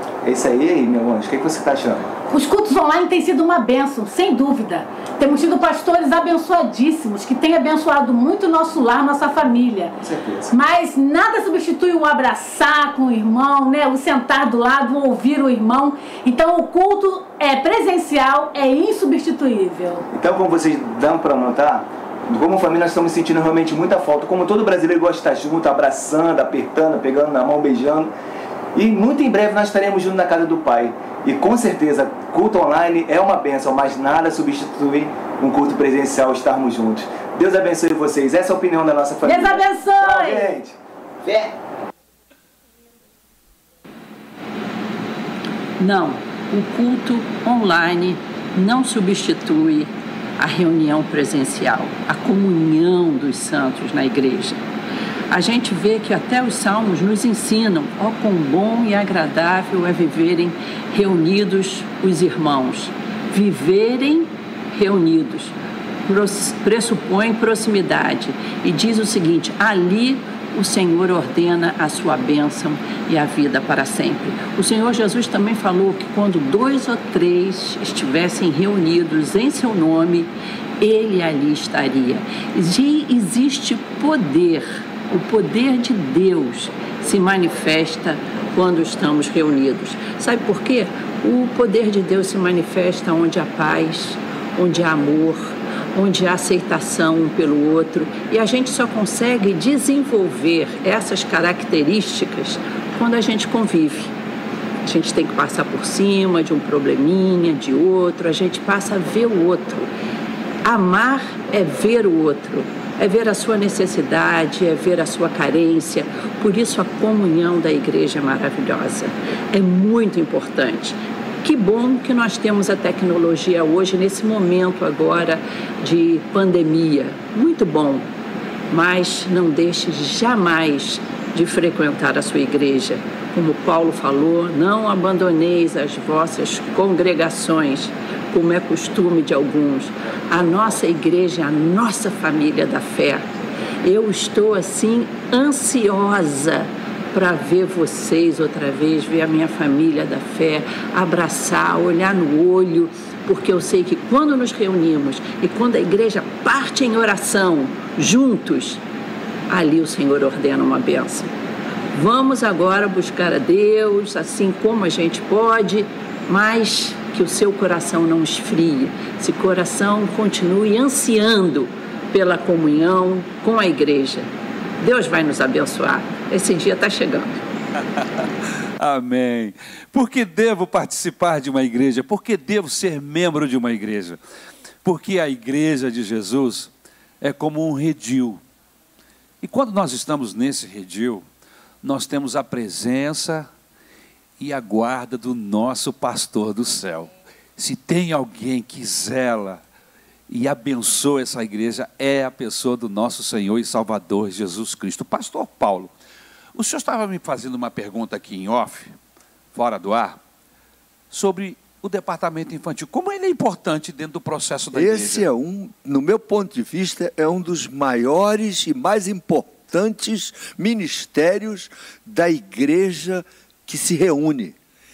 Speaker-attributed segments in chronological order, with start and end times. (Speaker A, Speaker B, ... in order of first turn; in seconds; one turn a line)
Speaker A: 0.2-2.1
Speaker B: 2.3-9.9
Speaker A: 10.0-10.5
Speaker B: 10.5-20.1
Speaker A: 20.1-28.1
Speaker A: 28.8-41.5
Speaker B: 39.2-40.5
Speaker C: 45.8-54.6
Speaker C: 55.3-65.5
Speaker C: 66.1-104.1
Speaker C: 104.8-109.9
Speaker C: 110.6-128.1
Speaker C: 128.7-143.3
Speaker C: 143.8-158.8
Speaker C: 159.5-161.3
Speaker C: 161.9-174.3
Speaker C: 174.8-177.4
Speaker D: 178.8-184.2
Speaker D: 184.8-188.4
Speaker D: 189.4-191.2
Speaker D: 191.8-193.5
Speaker D: 194.4-199.6
Speaker D: 200.3-205.9
Speaker D: 206.6-208.9
Speaker D: 209.5-210.2
Speaker D: 211.1-215.3
Speaker E: 214.7-224.6